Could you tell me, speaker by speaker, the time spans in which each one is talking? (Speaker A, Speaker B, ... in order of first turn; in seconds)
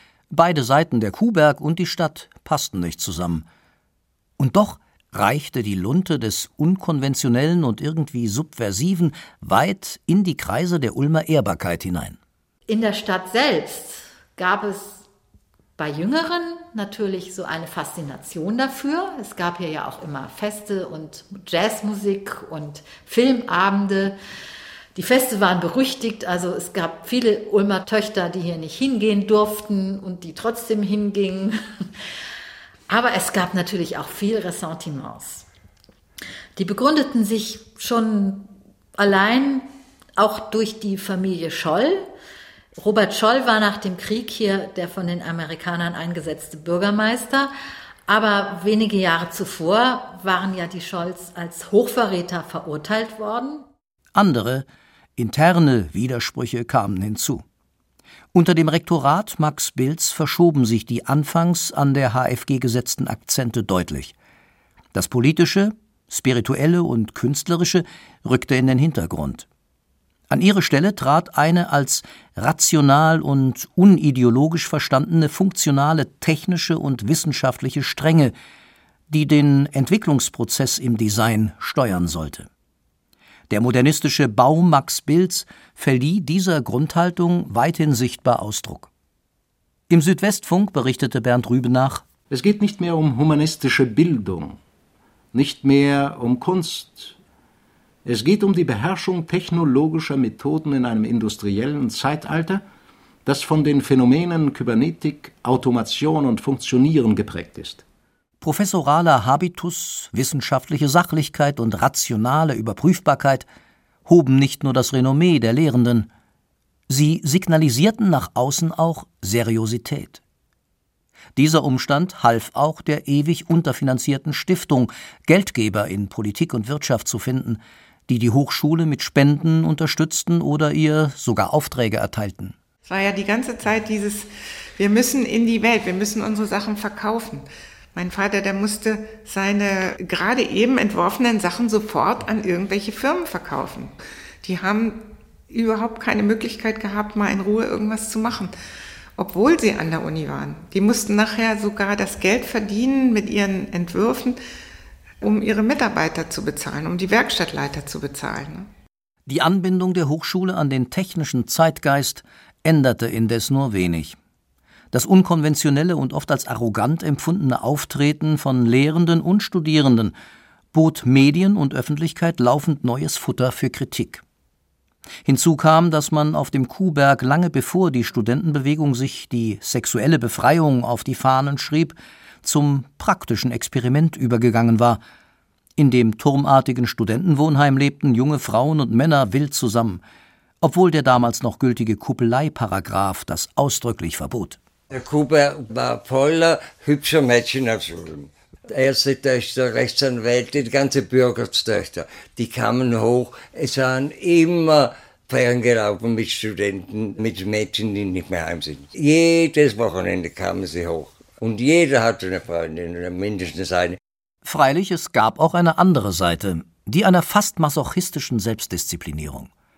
Speaker A: 0.3-3.5, 4.4-12.2, 54.1-57.4, 58.3-64.1, 64.9-69.5, 70.3-78.3, 79.1-82.5, 83.5-88.9, 89.9-92.1, 108.4-113.5, 114.1-116.1, 116.9-120.2, 121.4-132.6, 159.3-164.2, 164.9-170.1, 170.7-174.2, 175.2-185.0, 185.8-190.0, 190.6-194.6, 214.4-219.5
Speaker B: 12.7-15.0, 15.8-24.2, 24.9-31.9, 32.9-35.5, 36.6-42.1, 42.8-47.5, 48.1-53.7
Speaker C: 92.3-94.6, 95.3-97.2, 98.0-102.6, 103.2-107.8
Speaker D: 132.9-148.5, 149.2-154.4, 155.2-158.7
Speaker E: 194.9-214.0